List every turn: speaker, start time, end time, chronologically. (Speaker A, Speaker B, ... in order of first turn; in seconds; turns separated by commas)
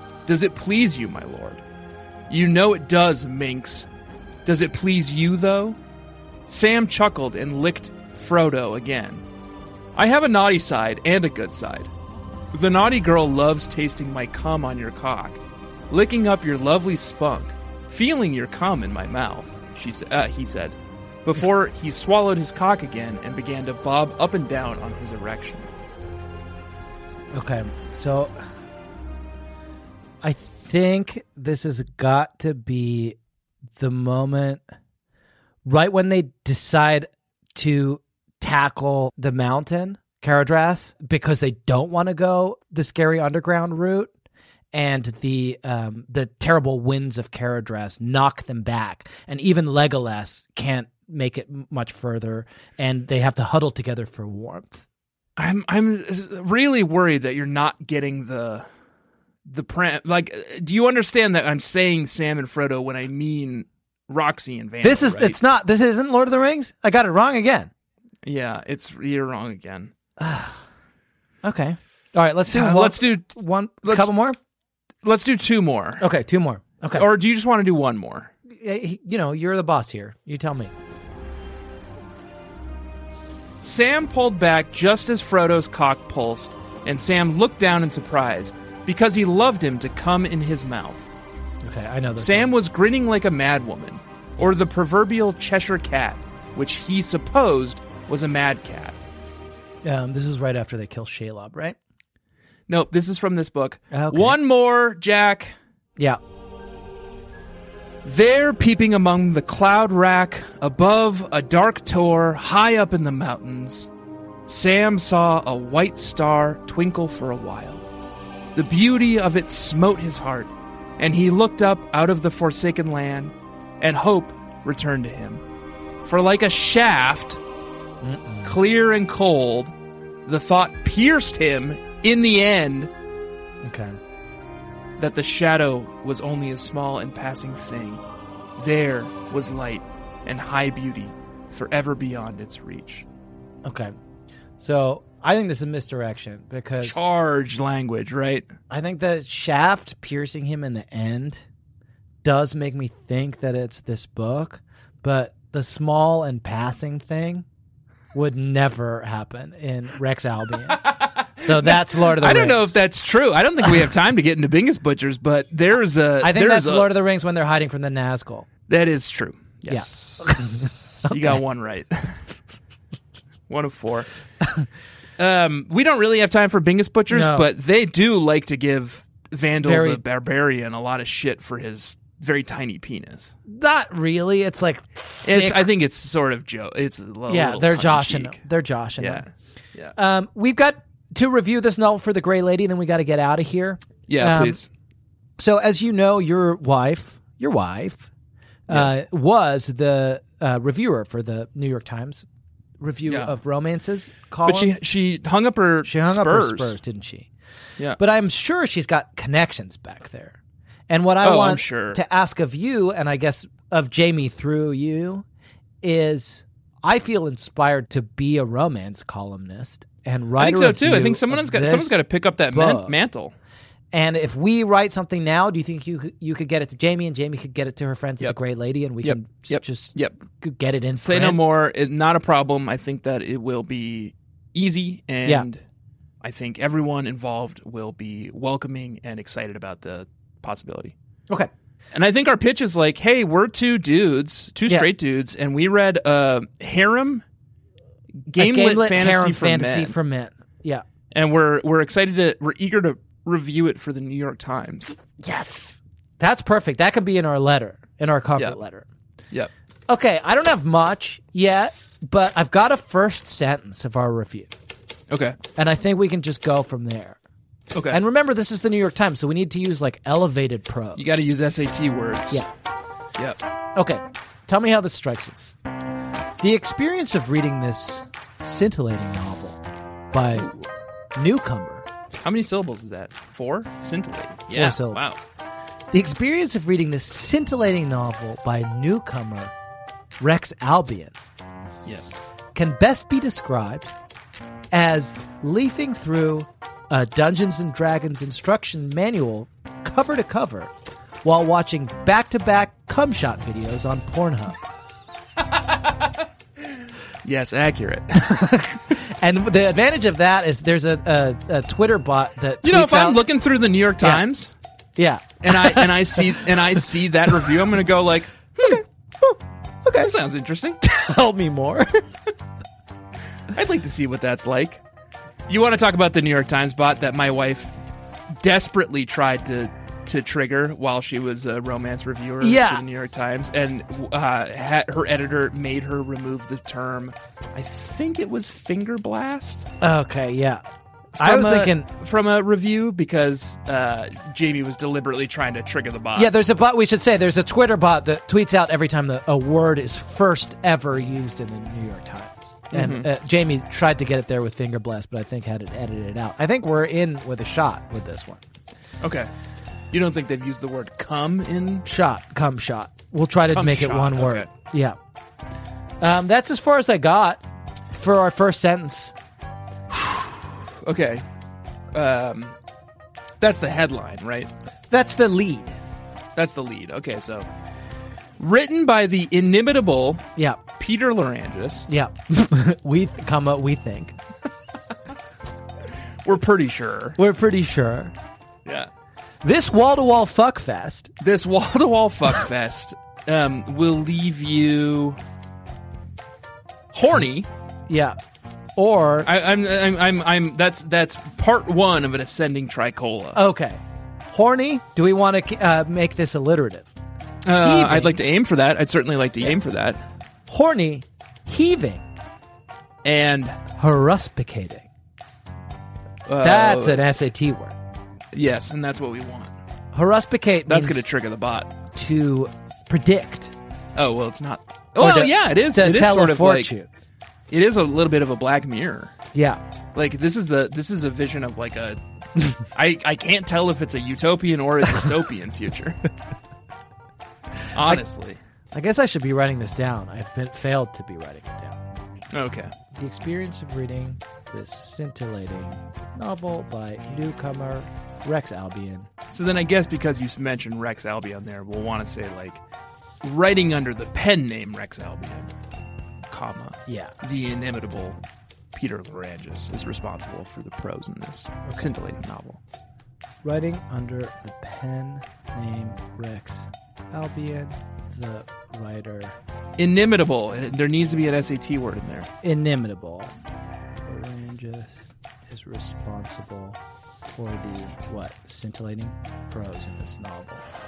Speaker A: 0.3-1.6, Speaker A: 2.3-3.9, Speaker A: 4.5-5.8, Speaker A: 6.5-9.2, Speaker A: 9.9-11.9, Speaker A: 12.5-25.7, Speaker B: 27.3-28.4, Speaker B: 30.2-33.2, Speaker B: 33.8-34.6, Speaker B: 35.6-44.1, Speaker B: 44.7-54.8, Speaker A: 55.4-58.7, Speaker A: 59.5-65.4, Speaker B: 64.8-67.7, Speaker A: 68.2-69.9, Speaker B: 70.2-70.6, Speaker B: 71.4-74.4, Speaker A: 72.5-73.3, Speaker A: 73.8-74.1, Speaker A: 75.0-76.0, Speaker B: 76.0-77.1, Speaker A: 76.9-78.3, Speaker B: 78.5-80.7, Speaker A: 83.6-91.1, Speaker B: 91.6-92.5, Speaker A: 92.2-99.0, Speaker B: 99.8-101.8, Speaker A: 102.7-105.5, Speaker B: 103.9-104.4, Speaker A: 108.0-113.9, Speaker A: 114.5-117.8, Speaker A: 118.5-125.4, Speaker A: 126.0-127.4, Speaker B: 128.0-128.6, Speaker A: 128.4-129.7, Speaker A: 130.3-132.9, Speaker B: 133.6-134.0, Speaker A: 135.0-138.0, Speaker A: 138.6-143.1, Speaker B: 143.7-143.9, Speaker B: 144.6-147.0, Speaker A: 146.8-148.5, Speaker B: 148.7-151.4, Speaker B: 152.2-157.5, Speaker B: 158.1-162.8, Speaker A: 160.7-166.9, Speaker B: 166.2-168.5, Speaker A: 168.7-172.3, Speaker B: 169.7-171.4, Speaker A: 173.5-174.1, Speaker A: 175.2-183.3, Speaker B: 177.1-177.5, Speaker B: 179.6-180.0, Speaker B: 183.5-185.7, Speaker A: 185.2-188.4, Speaker B: 187.3-189.2, Speaker A: 189.0-189.9, Speaker B: 189.9-194.6, Speaker A: 194.1-194.7, Speaker B: 195.4-198.1, Speaker B: 198.7-202.3, Speaker A: 198.7-199.0, Speaker B: 202.8-204.7, Speaker A: 203.1-203.3, Speaker A: 204.4-206.8, Speaker B: 205.8-207.3, Speaker B: 208.0-210.4, Speaker B: 210.9-215.2, Speaker A: 211.2-212.0, Speaker B: 215.8-222.0, Speaker A: 220.4-223.3, Speaker B: 222.5-223.0, Speaker B: 223.9-231.4, Speaker A: 229.0-230.2, Speaker A: 231.0-235.6, Speaker A: 236.2-240.9, Speaker A: 241.9-247.2, Speaker A: 248.3-249.9, Speaker B: 248.4-250.8, Speaker A: 251.1-255.0, Speaker B: 255.2-258.9, Speaker B: 259.9-264.5, Speaker A: 265.1-265.4, Speaker B: 265.6-267.2, Speaker A: 267.7-268.0, Speaker B: 267.9-271.1, Speaker A: 271.0-272.4, Speaker B: 273.8-275.4, Speaker B: 276.4-279.6, Speaker B: 280.1-280.5, Speaker A: 280.4-280.7, Speaker B: 281.2-281.9, Speaker A: 282.2-285.2, Speaker B: 284.5-285.0, Speaker B: 285.9-289.5, Speaker B: 290.2-291.1, Speaker A: 291.9-292.2, Speaker B: 292.6-293.9, Speaker B: 294.7-300.7, Speaker B: 301.2-304.6, Speaker A: 305.5-306.1, Speaker A: 307.2-308.3, Speaker B: 308.1-313.2, Speaker A: 312.6-314.5, Speaker B: 315.0-316.5, Speaker A: 315.4-318.8, Speaker B: 318.6-320.1, Speaker A: 319.9-320.8, Speaker B: 320.8-322.1, Speaker A: 323.5-324.8, Speaker A: 325.5-327.7, Speaker A: 328.3-339.7, Speaker B: 332.4-332.8, Speaker B: 339.8-340.6, Speaker B: 341.2-341.9, Speaker A: 341.2-346.3, Speaker B: 346.1-358.4, Speaker A: 352.7-353.1, Speaker A: 359.0-359.3, Speaker A: 359.9-361.9, Speaker B: 361.9-365.0, Speaker A: 363.5-364.5, Speaker B: 366.0-369.1, Speaker A: 369.9-371.2, Speaker A: 371.9-372.6, Speaker A: 373.4-374.5, Speaker B: 374.9-375.9, Speaker A: 376.4-377.5, Speaker A: 378.4-380.3, Speaker A: 380.8-381.9, Speaker B: 381.9-384.1, Speaker A: 386.2-387.2, Speaker B: 387.2-388.1, Speaker A: 388.6-388.9, Speaker B: 389.4-391.1, Speaker A: 391.2-395.2, Speaker A: 396.9-397.5, Speaker B: 397.9-398.2, Speaker B: 398.8-399.3, Speaker A: 399.2-403.4, Speaker B: 403.4-406.9, Speaker A: 407.4-410.0, Speaker B: 407.6-408.2, Speaker B: 410.5-412.0, Speaker A: 413.0-413.6, Speaker B: 413.7-414.9, Speaker A: 416.3-417.1, Speaker B: 416.4-417.8, Speaker A: 418.3-419.5, Speaker B: 419.9-421.1, Speaker A: 420.7-421.7, Speaker B: 421.9-423.5, Speaker A: 423.9-426.7, Speaker B: 425.0-426.9, Speaker A: 427.5-429.1, Speaker B: 429.3-429.6, Speaker A: 429.9-432.0, Speaker A: 432.6-436.0, Speaker A: 437.7-438.4, Speaker B: 437.8-438.0, Speaker B: 438.7-441.8, Speaker A: 442.3-442.7, Speaker B: 442.9-449.1, Speaker A: 449.3-452.6, Speaker A: 453.2-455.5, Speaker A: 456.3-458.2, Speaker B: 456.9-457.1, Speaker A: 458.7-462.6, Speaker B: 461.6-461.9, Speaker B: 463.4-469.4, Speaker A: 469.8-472.3, Speaker B: 472.4-473.3, Speaker B: 474.1-476.8, Speaker B: 477.4-480.7